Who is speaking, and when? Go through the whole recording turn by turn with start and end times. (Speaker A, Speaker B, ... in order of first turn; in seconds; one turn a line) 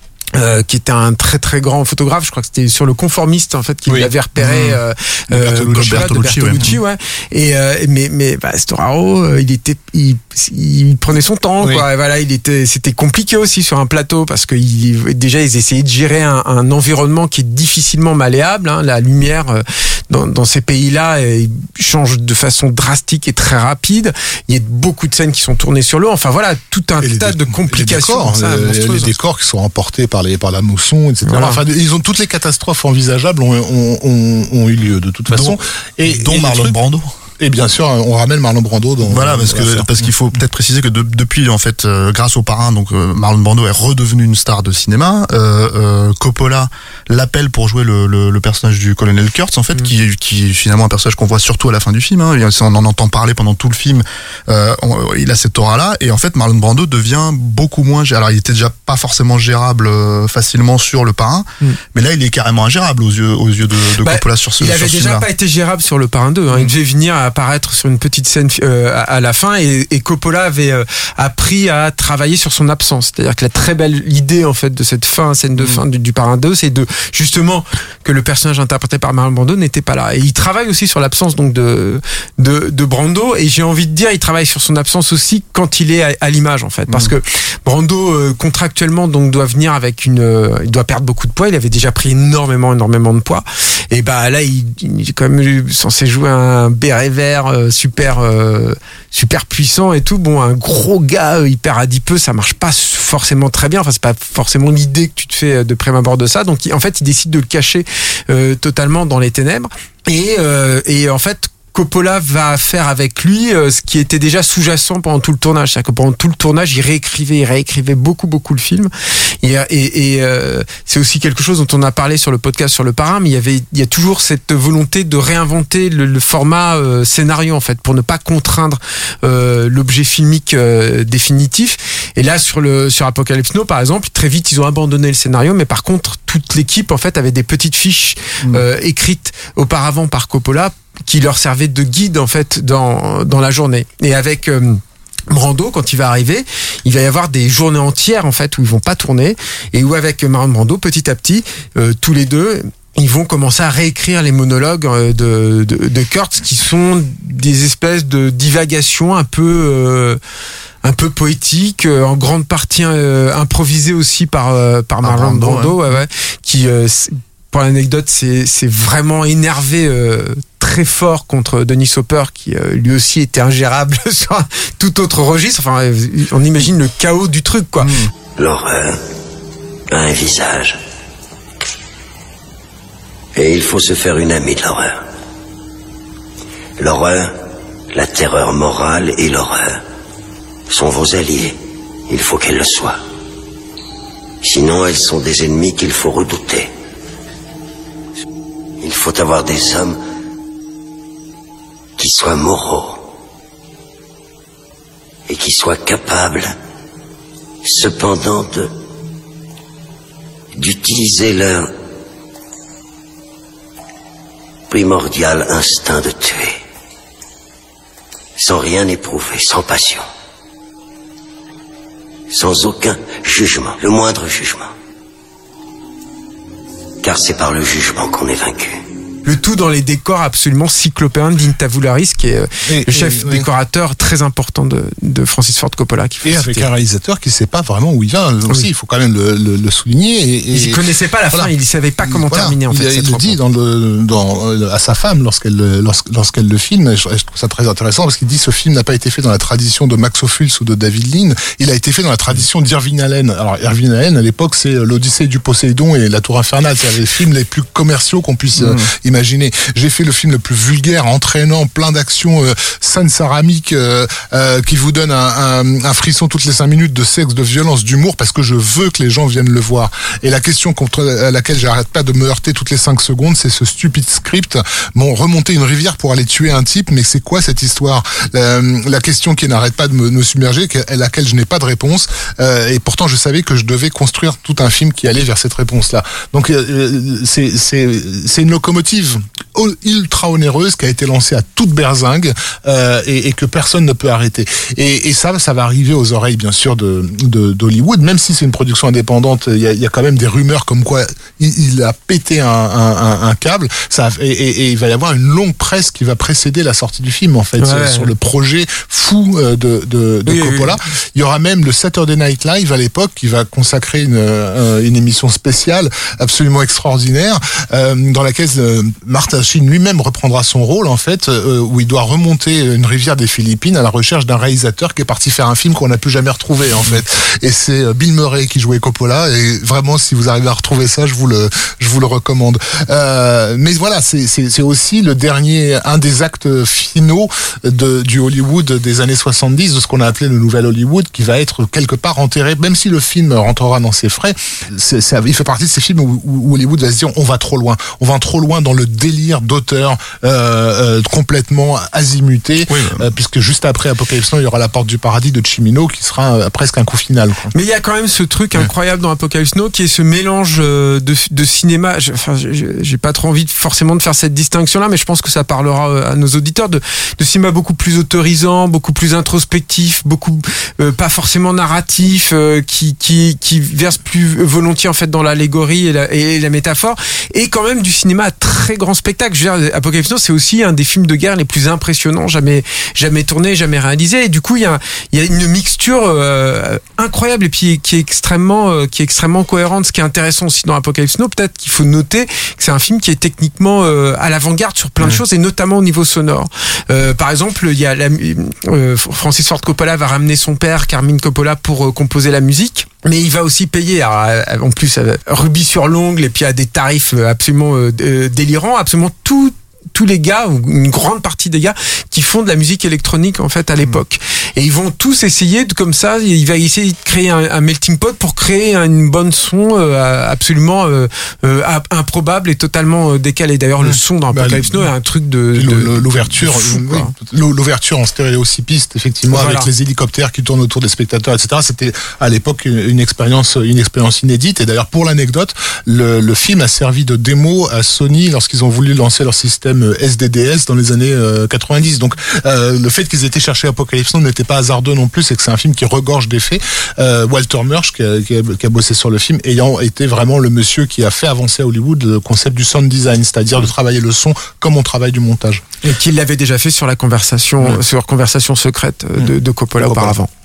Speaker A: 0.3-29.2
Speaker B: 3.9-4.7
Speaker C: 4.4-4.8
Speaker B: 5.3-6.1
Speaker C: 5.5-6.8
Speaker B: 11.6-11.9
Speaker B: 27.0-36.8
Speaker A: 31.3-31.6
Speaker C: 35.3-37.1
Speaker B: 37.4-39.9
Speaker C: 39.0-65.3
Speaker A: 64.0-118.9
Speaker A: 119.4-160.2
Speaker A: 160.8-177.9
Speaker C: 165.0-165.8
Speaker C: 177.8-178.1
Speaker D: 178.4-179.0
Speaker D: 179.9-180.8
Speaker D: 183.3-185.0
Speaker D: 186.8-187.3
Speaker D: 187.9-189.8
Speaker D: 190.7-191.6
Speaker D: 192.1-193.0
Speaker D: 194.4-196.7
Speaker D: 198.8-200.0
Speaker D: 202.0-203.0
Speaker D: 205.3-206.6
Speaker D: 207.6-208.7
Speaker D: 210.6-211.7
Speaker D: 214.7-216.6
Speaker D: 218.4-220.1
Speaker D: 222.3-224.7
Speaker D: 227.0-228.8
Speaker A: 229.2-236.7
Speaker B: 232.7-233.5
Speaker B: 236.2-241.5
Speaker A: 240.5-243.4
Speaker B: 242.0-357.5
Speaker C: 258.6-258.9
Speaker A: 307.6-308.1
Speaker A: 310.3-310.8
Speaker C: 352.7-353.0
Speaker A: 357.5-427.1
Speaker B: 423.8-424.9
Speaker B: 425.5-455.6
Speaker A: 429.3-429.7
Speaker A: 455.8-460.3
Speaker B: 459.8-460.2